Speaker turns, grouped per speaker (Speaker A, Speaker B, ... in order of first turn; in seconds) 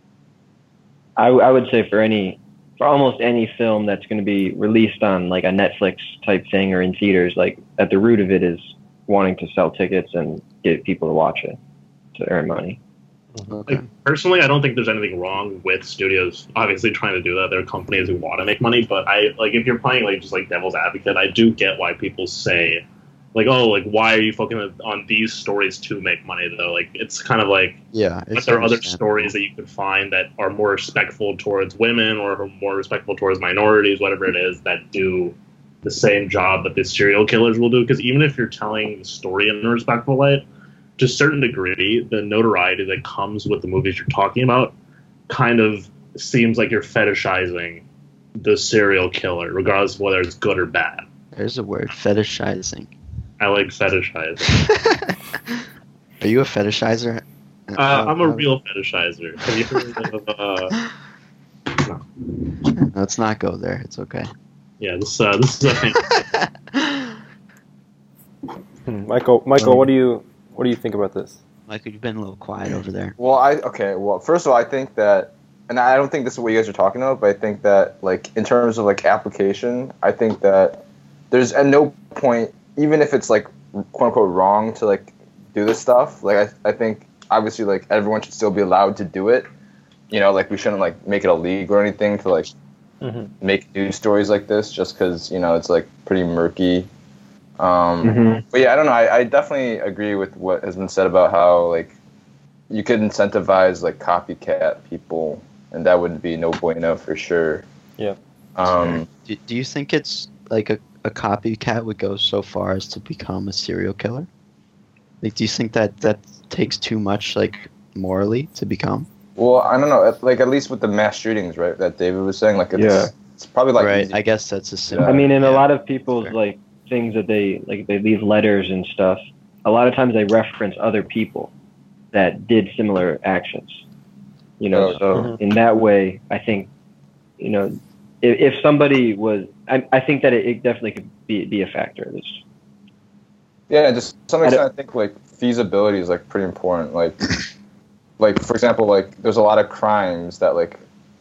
Speaker A: 1.2-11.6, 12.2-12.8, 98.0-98.5, 122.7-123.1, 125.1-131.5, 132.1-133.8, 134.6-136.7, 137.4-142.4
Speaker B: 13.5-13.8, 27.9-29.3, 51.3-52.9, 54.6-55.5, 56.2-58.5, 62.7-64.3, 66.0-67.2, 71.7-73.2, 108.6-114.3, 115.2-119.1, 123.8-126.4
Speaker C: 13.7-27.8, 28.4-40.5, 41.0-44.8, 45.3-47.8, 48.4-51.0, 53.4-54.7, 57.8-60.8, 61.8-62.0, 64.8-66.2
Speaker D: 68.9-71.4, 93.0-93.3, 135.1-135.4
Speaker E: 73.2-89.5, 90.1-92.5, 93.4-96.9, 97.6-102.0, 102.7-107.7, 108.6-109.1, 119.4-124.1, 124.9-125.2, 134.7-135.0, 143.7-147.2, 148.2-150.8